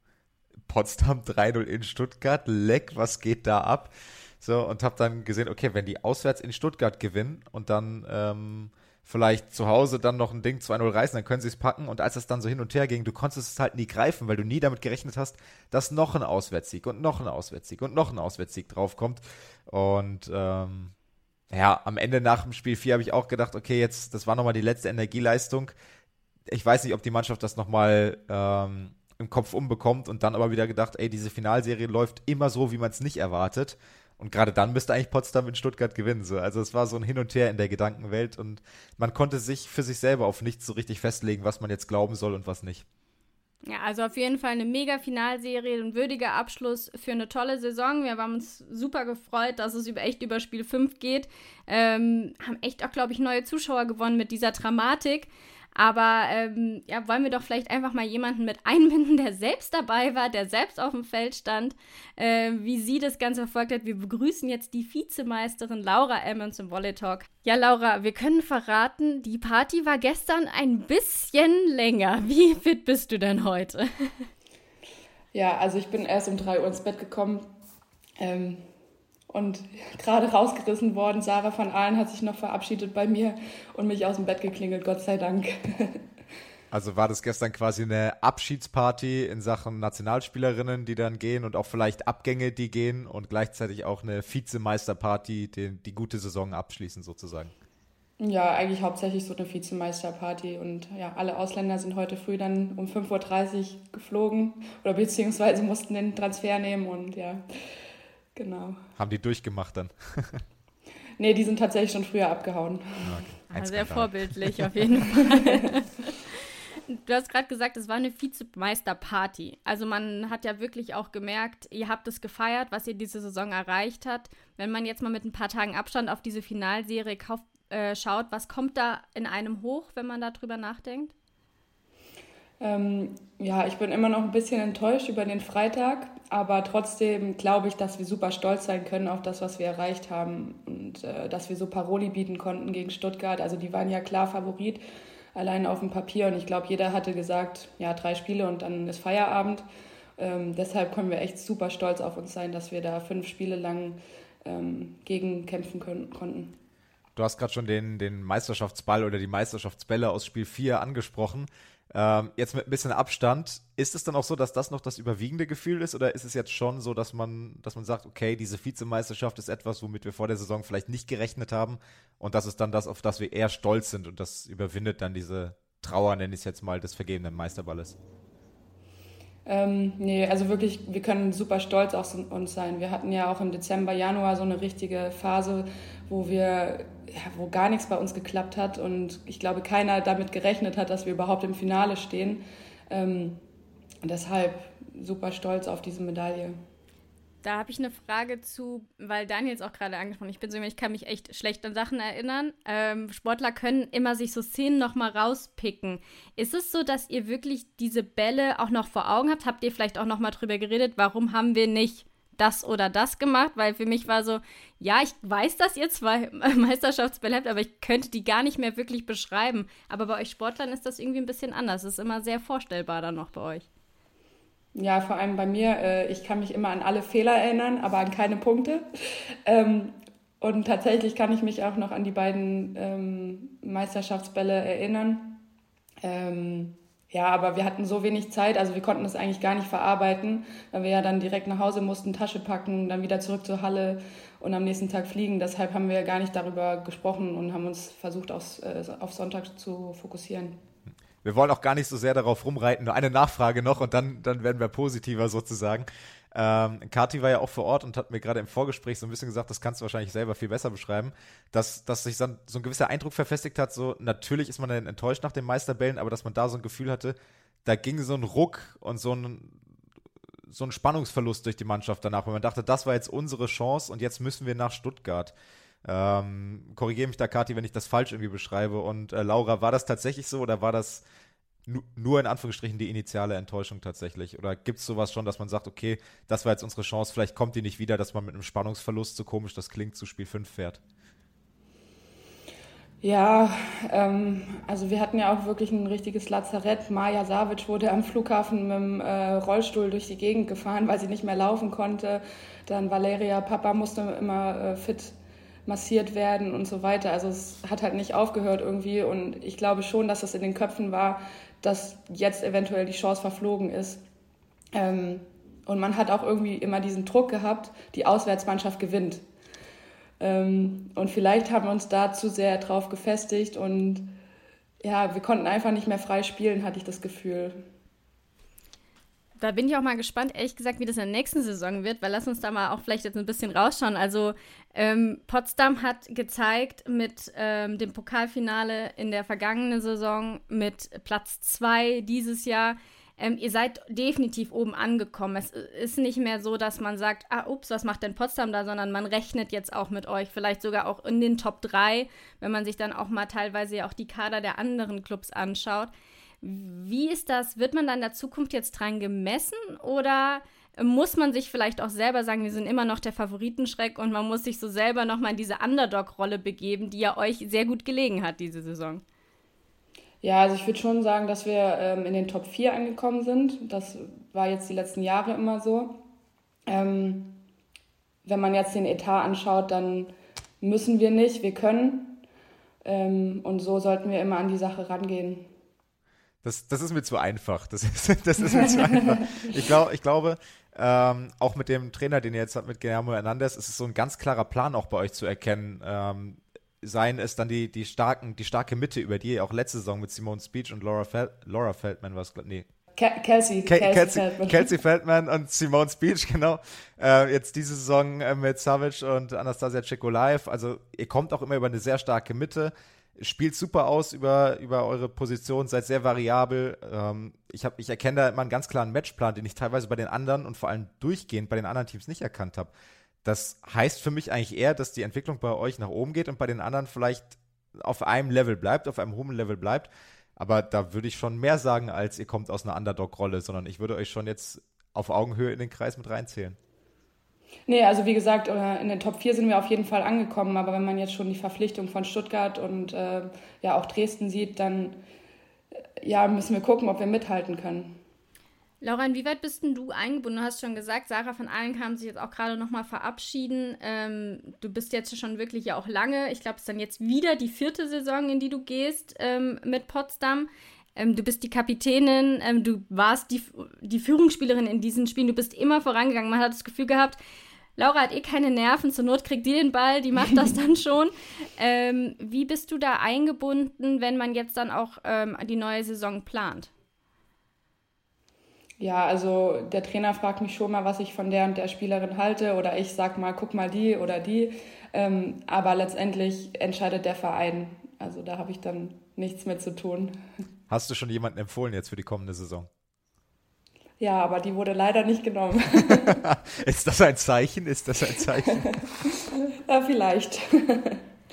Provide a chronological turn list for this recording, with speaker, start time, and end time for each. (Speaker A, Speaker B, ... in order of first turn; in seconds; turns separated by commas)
Speaker A: 0.7-20.9, Speaker A: 21.5-25.7, Speaker A: 26.5-42.8, Speaker B: 43.6-74.2, Speaker C: 75.3-77.5, Speaker C: 78.2-78.6, Speaker C: 79.3-86.0, Speaker A: 86.7-97.5, Speaker C: 98.2-107.4, Speaker C: 108.3-108.8, Speaker A: 109.0-110.4, Speaker C: 111.2-113.2, Speaker A: 113.0-114.7, Speaker B: 113.5-116.3, Speaker C: 115.3-115.7, Speaker B: 116.9-131.1, Speaker C: 132.6-144.8, Speaker C: 145.3-149.6, Speaker C: 150.2-156.6, Speaker A: 157.2-178.0, Speaker C: 179.4-193.4, Speaker C: 194.0-196.6, Speaker B: 197.4-223.7, Speaker C: 224.7-228.8, Speaker C: 229.4-235.4, Speaker C: 236.0-250.6, Speaker A: 251.2-269.6, Speaker A: 270.5-275.3, Speaker A: 275.8-281.0, Speaker A: 281.7-290.8, Speaker C: 293.0-305.1, Speaker C: 305.7-314.0, Speaker C: 314.7-319.2, Speaker C: 320.2-324.1, Speaker C: 324.8-327.6, Speaker B: 329.4-355.9, Speaker B: 356.4-369.0, Speaker C: 370.2-376.0, Speaker C: 376.7-377.4, Speaker C: 378.2-382.2, Speaker C: 382.8-385.5, Speaker A: 386.4-402.7, Speaker C: 388.8-389.5, Speaker C: 402.9-404.7, Speaker A: 403.6-422.7, Speaker A: 423.2-436.6, Speaker C: 437.7-445.0, Speaker C: 446.0-448.0, Speaker B: 448.8-467.2, Speaker B: 467.8-476.7, Speaker C: 478.8-490.2, Speaker A: 490.7-492.7, Speaker C: 494.0-496.3, Speaker A: 496.2-498.8, Speaker C: 498.4-501.0